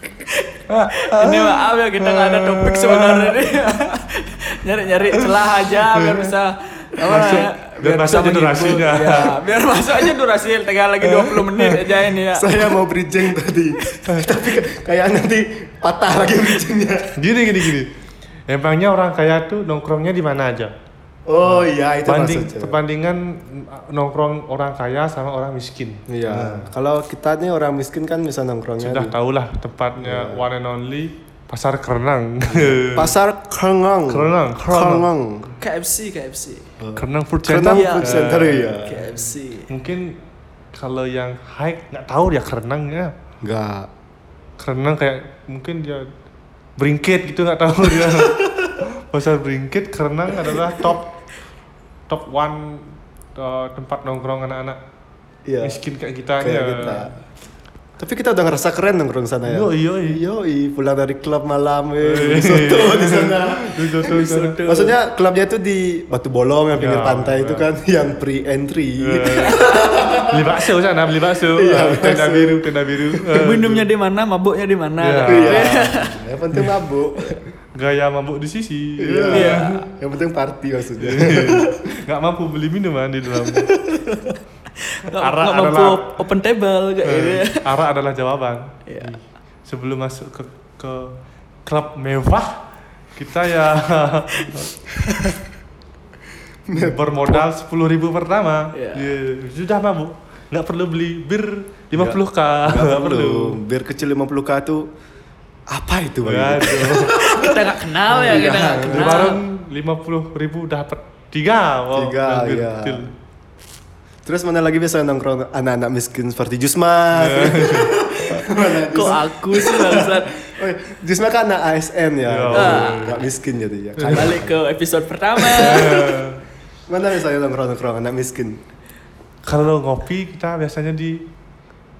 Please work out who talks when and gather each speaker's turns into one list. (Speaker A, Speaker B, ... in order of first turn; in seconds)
Speaker A: 0.2-12.7, 35.6-36.6, 37.6-39.7, 64.0-64.9, 69.6-70.2, 73.3-76.1, 79.3-79.8, 84.8-87.7, 88.8-89.1, 98.7-99.1, 107.2-109.4, 118.9-120.3, 122.5-123.1, 124.1-126.1
Speaker B: 0.7-3.5, 5.9-6.3, 7.0-9.4, 11.0-11.9, 17.2-17.9, 18.5-20.7, 21.4-26.7, 28.8-33.1, 34.1-35.1, 37.0-38.8, 39.7-40.2, 40.7-43.1, 44.6-46.1, 46.8-51.1, 52.1-54.8, 55.6-57.1, 59.5-60.2, 62.0-64.6, 66.7-67.7, 69.0-73.9, 75.0-75.9, 76.5-76.8, 77.7-79.8, 81.0-83.7, 85.1-86.2, 87.0-92.6, 93.1-95.4, 96.7-103.6, 106.2-107.2, 108.8-113.1, 117.1-117.9, 122.3-123.2, 124.0-124.4, 125.5-126.4, 129.4-131.3
Speaker C: 12.3-17.1, 21.3-22.8, 26.1-29.1, 30.0-30.4, 32.5-35.5, 36.8-39.0, 43.4-43.9, 47.9-48.7, 55.4-55.8, 56.4-57.1, 58.0-64.0, 64.6-70.4, 71.5-73.3, 75.2-77.4, 79.0-81.8, 83.5-84.2, 96.7-97.5, 101.9-104.9, 105.7-109.3, 111.9-113.0, 114.2-124.5, 125.6-125.9, 126.9-128.6